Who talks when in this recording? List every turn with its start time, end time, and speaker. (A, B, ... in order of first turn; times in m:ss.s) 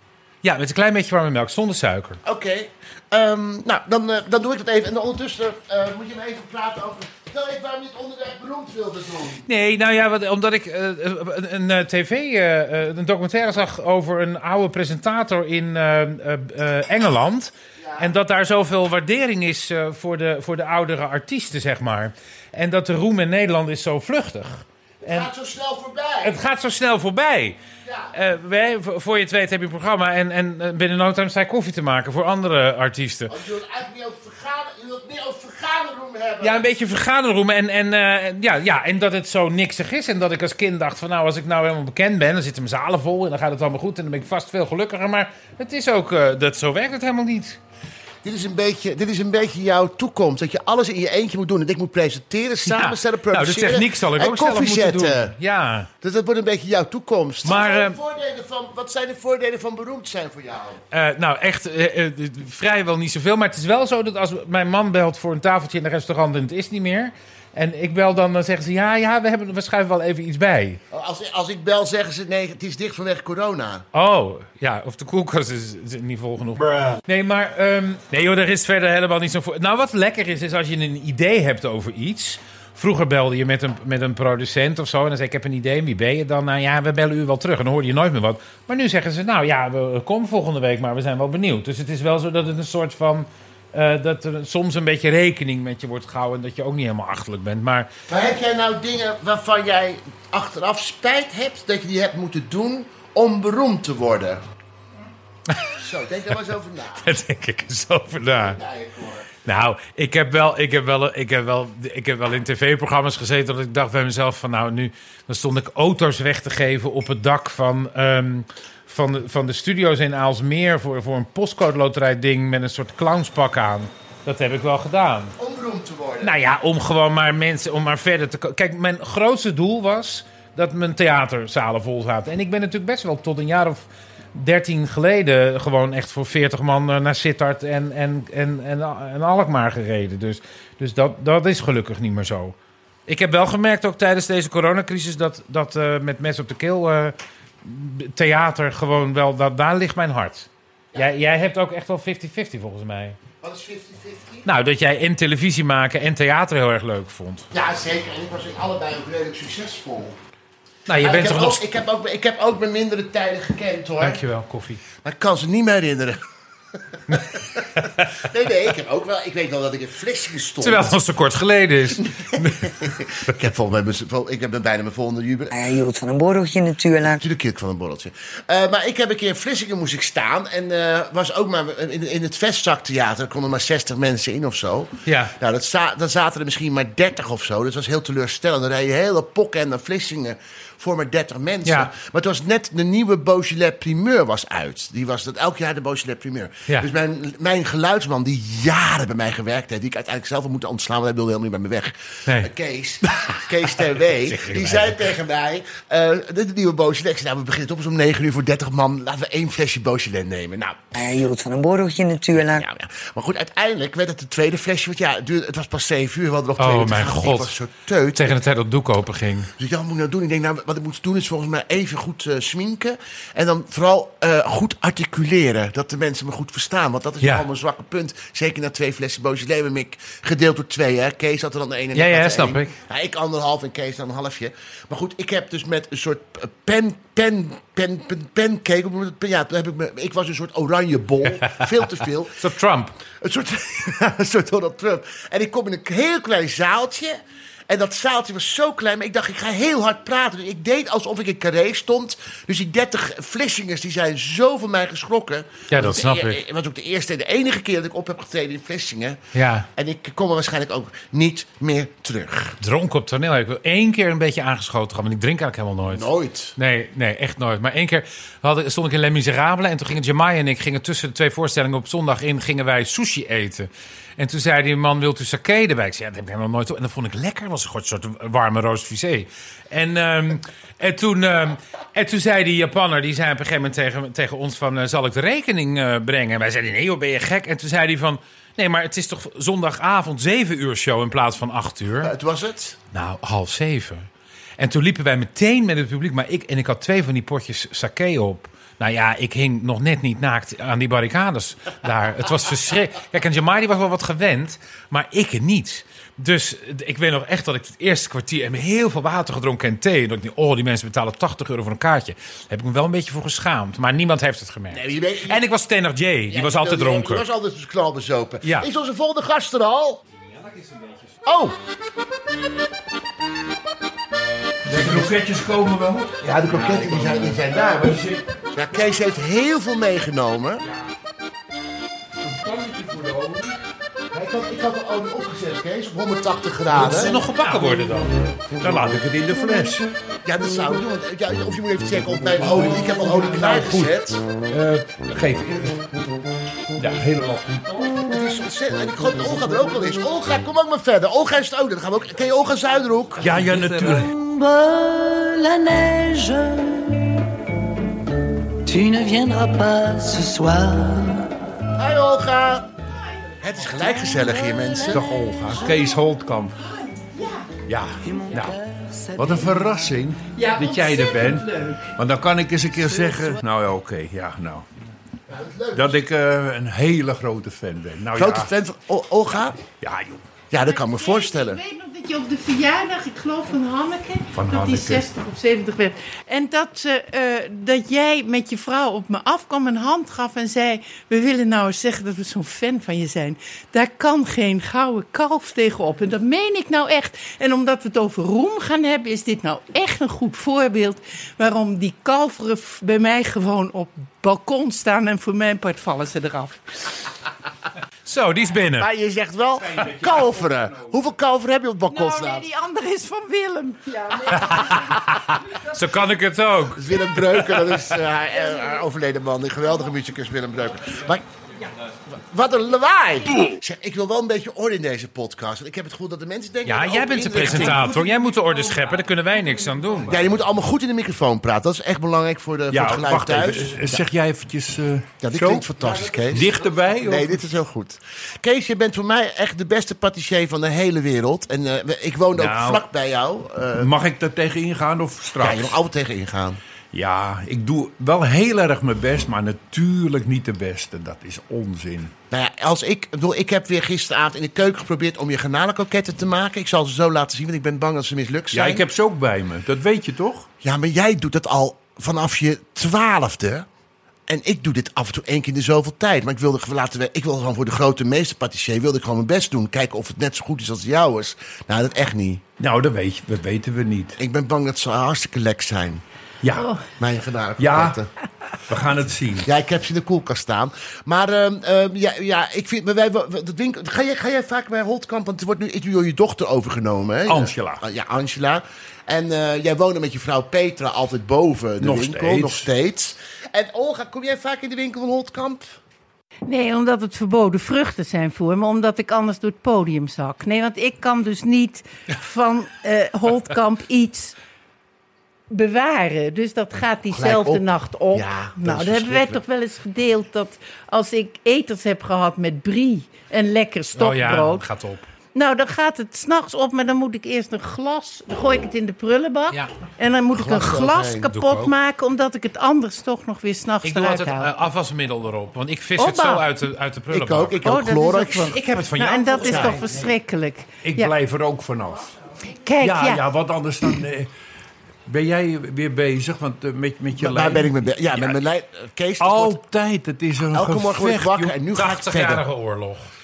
0:00.4-0:02.2 A
0:02.2-0:09.4 B
0:09.5-0:25.3 A
0:17.8-0:18.1 B
0:25.0-0:26.4 B
0:26.2-0:27.6 A
0:27.9-0:28.1 B
0:28.1-0:33.4 A
0:33.3-0:36.7 B
0:36.4-0:47.6 A
0:48.2-0:55.4 B
0:52.6-0:55.9 A
0:56.0-1:00.8 B
0:57.4-0:58.0 A
1:00.9-1:10.8 A
1:10.9-1:13.8 B
1:13.9-1:37.9 A
1:38.1-1:44.4 B
1:45.8-1:47.1 B
1:47.0-1:48.6 A
1:48.5-1:49.3 B
1:49.5-2:05.3 A
2:05.4-2:06.4 B
2:06.2-2:22.6 A
2:23.1-2:33.2 A
2:33.4-2:34.4 B
2:34.4-2:37.5 A
2:37.5-2:40.2 B
2:40.9-2:41.6 A
2:41.0-2:44.2 B
2:44.0-2:44.8 A
2:45.0-2:46.2 B
2:47.1-2:51.0 B
2:50.6-2:52.8 A
2:52.7-2:55.5 B
2:55.5-2:57.2 C
2:57.2-3:30.8 B
3:05.1-3:05.3 A
3:11.6-3:11.9 A
3:23.9-3:25.1 A
3:31.0-3:32.6 C
3:32.6-3:38.4 B
3:36.6-3:37.6 A
3:38.2-3:39.5 A
3:39.6-4:02.4 B
3:51.9-3:52.8 A
4:01.4-4:01.8 A
4:02.4-4:03.0 A
4:03.2-4:07.2 B
4:07.7-4:19.2 B
4:15.7-4:16.4 A
4:19.3-4:19.7 A
4:19.8-4:22.6 B
4:22.6-4:52.1 A
4:25.9-4:26.6 B
4:52.0-4:52.8 B
4:52.9-5:17.3 A
5:14.7-5:15.4 B
5:16.3-5:20.0 B
5:18.4-5:18.7 A
5:20.4-5:21.0 D
5:21.3-5:21.6 B
5:24.6-5:28.2 D
5:26.2-5:28.0 B
5:28.5-5:30.6 B
5:30.6-5:30.9 D
5:32.2-5:33.6 D
5:34.1-5:37.2 B
5:36.8-5:38.2 A
5:36.8-5:37.6 D
5:38.6-5:39.9 D
5:40.3-5:44.2 B
5:42.4-5:43.9 D
5:44.5-5:45.8 D
5:46.8-5:47.9 D
5:48.0-5:53.3 B
5:53.2-5:54.1 D
5:53.3-5:56.9 E
5:58.7-6:01.3 E
6:01.8-6:02.7 B
6:03.4-6:05.1 B
6:04.9-6:06.6 D
6:07.7-6:08.6 D
6:08.0-6:09.9 E
6:09.2-6:14.7 D
6:10.4-6:11.6 F
6:10.8-6:11.3 E
6:12.9-6:13.4 E
6:15.3-6:16.0 B
6:15.7-6:18.5 D
6:18.2-6:19.6 B
6:19.8-6:20.2 D
6:20.5-6:21.6 B
6:20.6-6:46.8 F
6:24.3-6:25.1 D
6:48.0-6:48.9 A
6:48.8-6:52.4 B
6:49.6-6:51.0 D
6:51.9-6:54.9 F
6:54.5-6:55.0 A
6:55.5-6:57.7 A
6:56.8-7:01.2 B
7:02.1-7:07.9 B
7:06.6-7:10.2 A
7:10.1-7:14.0 B
7:12.7-7:17.4 D
7:15.2-7:23.9 B
7:22.4-7:22.8 D
7:23.8-7:25.8 D
7:25.4-7:26.6 B
7:26.9-7:32.1 D
7:32.3-7:38.8 B
7:38.5-7:40.5 D
7:40.6-7:43.7 B
7:44.3-7:52.4 B
7:52.6-7:54.2 D
7:54.2-7:56.0 B
7:56.4-7:56.7 D
7:56.6-7:56.8 F
7:57.0-7:58.1 B
7:57.6-7:58.0 D
7:58.7-7:59.5 D
7:59.4-8:15.8 B
8:07.3-8:07.8 D
8:11.8-8:12.7 D
8:16.5-8:24.4 F
8:25.5-8:34.6 F
8:27.1-8:29.4 B
8:34.0-8:35.1 A
8:35.4-8:44.5 F
8:40.3-8:41.3 B
8:41.3-8:41.7 A
8:43.8-8:47.6 A
8:46.0-8:46.4 F
8:47.1-8:48.6 B
8:47.6-8:51.1 F
8:48.4-8:50.0 A
8:49.5-8:49.8 B
8:50.8-8:52.1 D
8:52.6-8:53.2 F
8:52.8-8:54.3 D
8:55.1-8:58.3 D
8:57.2-8:59.6 B
8:59.2-9:01.5 D
9:00.5-9:02.4 B
9:01.7-9:03.1 A